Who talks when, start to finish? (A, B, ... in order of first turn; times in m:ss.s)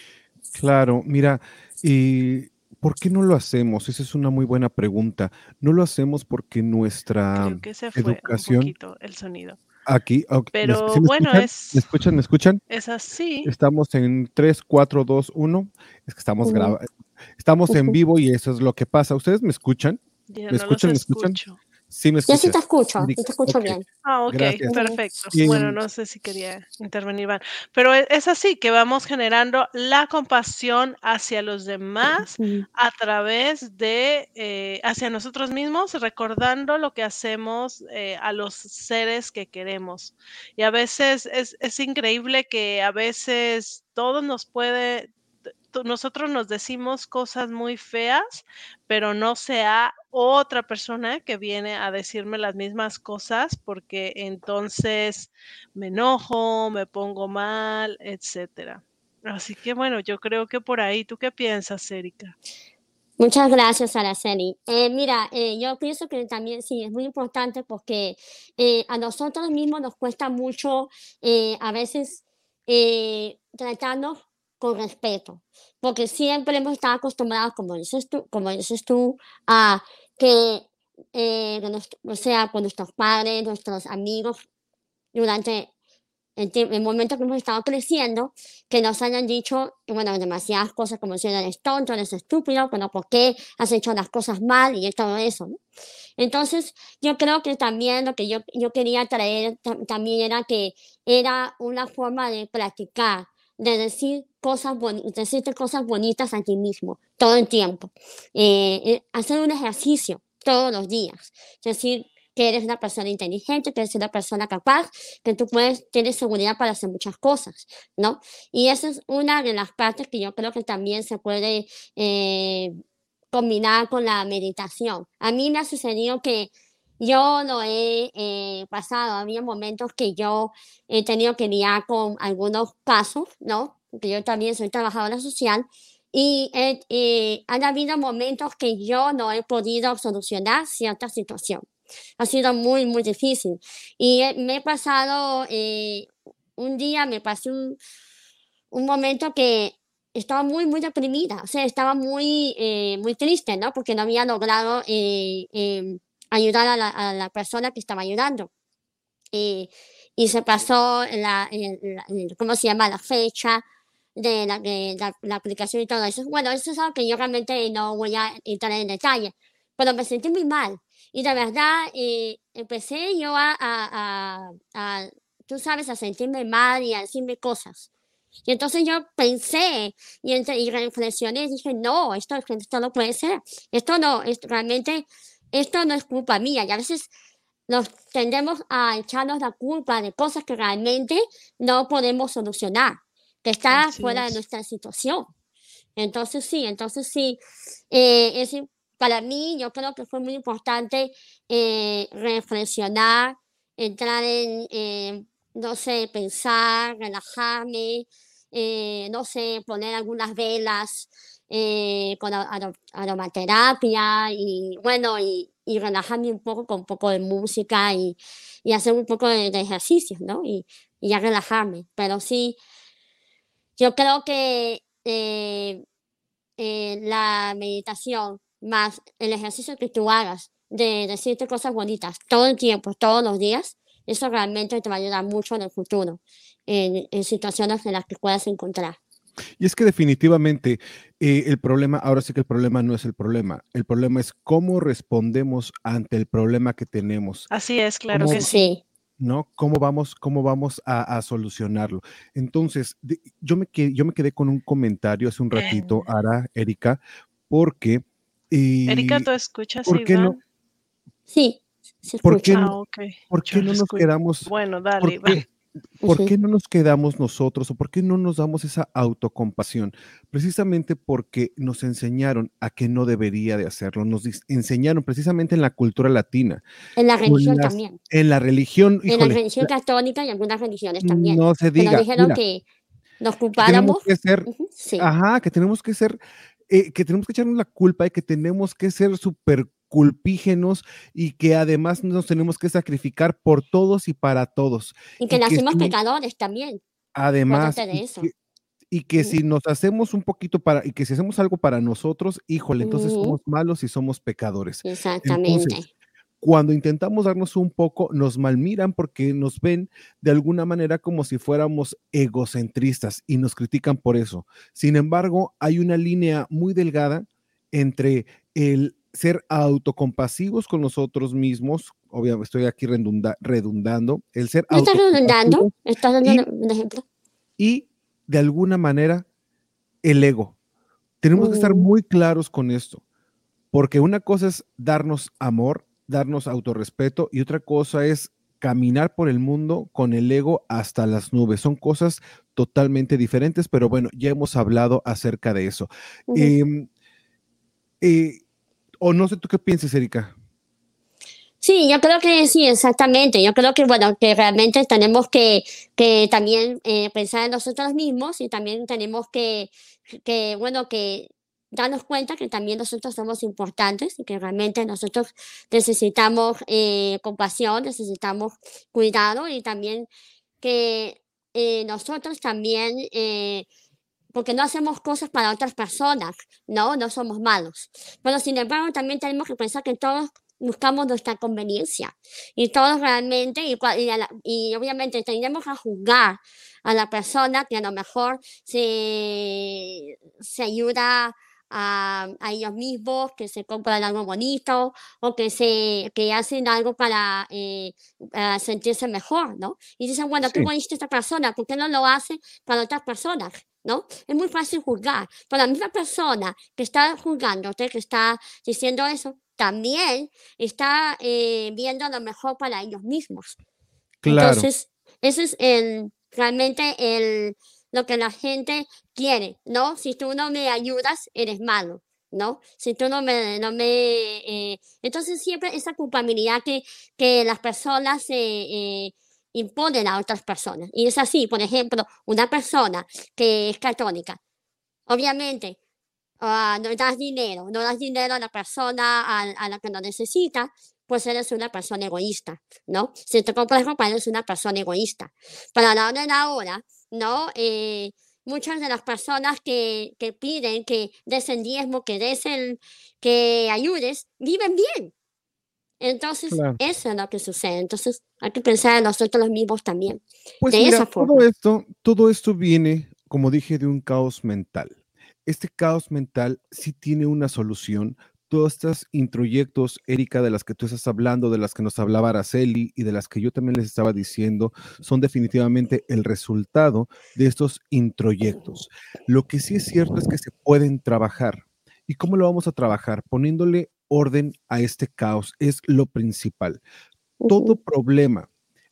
0:00.5-0:08.7 A
0:07.3-0:09.6 B
0:09.9-0:12.6 A
0:10.5-0:11.9 B
0:12.7-0:13.5 B
0:13.4-0:20.0 A
0:16.4-0:16.8 C
0:17.7-0:18.0 C
0:20.3-0:21.6 B
0:20.5-0:21.4 A
0:21.9-0:24.8 A
0:22.3-0:23.8 C
0:24.0-0:45.1 B
0:24.7-0:25.0 C
0:25.3-0:25.8 A
0:32.4-0:32.7 C
0:45.7-1:02.4 B
1:03.2-1:24.4 C
1:25.1-1:25.7 C
1:26.4-1:35.6 C
1:36.2-2:02.8 C
2:03.3-2:21.6 C
2:22.2-2:27.8 C
2:28.7-2:38.5 C
2:39.3-2:43.6 C
2:44.2-2:57.9 C
2:58.5-3:07.1 C
3:07.7-3:15.3 C
3:13.7-3:14.4 B
3:16.0-3:17.4 C
3:17.9-3:42.6 C
3:43.8-3:45.8 C
3:46.6-3:59.0 C
3:59.6-4:07.5 A
4:07.5-4:08.5 B
4:08.1-4:08.5 A
4:08.2-4:08.8 C
4:09.2-4:19.3 A
4:15.5-4:15.8 B
4:15.6-4:16.0 C
4:18.9-4:20.4 B
4:19.9-4:20.4 A
4:21.3-4:22.7 C
4:22.2-4:22.7 A
4:22.5-4:25.4 B
4:23.3-4:25.4 A
4:26.0-4:26.4 C
4:26.1-4:36.6 A
4:37.0-4:38.0 C
4:37.2-4:39.7 A
4:39.1-4:42.6 C
4:41.0-4:42.4 A
4:43.2-4:45.1 C
4:43.6-4:46.2 A
4:46.7-4:55.9 A
4:55.2-4:56.8 C
4:57.2-4:58.3 A
4:57.5-4:58.3 C
4:58.9-5:05.8 A
5:02.8-5:03.4 C
5:04.8-5:05.9 C
5:06.4-5:26.4 A
5:24.7-5:27.0 C
5:27.6-5:29.3 A
5:30.0-5:30.6 A
5:31.2-5:33.0 A
5:31.4-5:31.9 C
5:33.7-5:46.9 A
5:46.3-5:46.5 C
5:48.0-5:48.4 A
5:49.0-5:50.3 A
5:51.6-6:10.1 C
6:10.6-6:13.7 C
6:14.3-6:53.6 C
6:40.4-6:40.7 A
6:54.2-6:54.7 A
6:54.3-7:14.4 C
7:15.1-7:15.8 C
7:16.4-7:35.1 C
7:36.0-7:41.4 C
7:36.5-7:36.8 A
7:40.6-8:06.8 A
8:07.4-8:07.8 C
8:07.5-8:08.5 A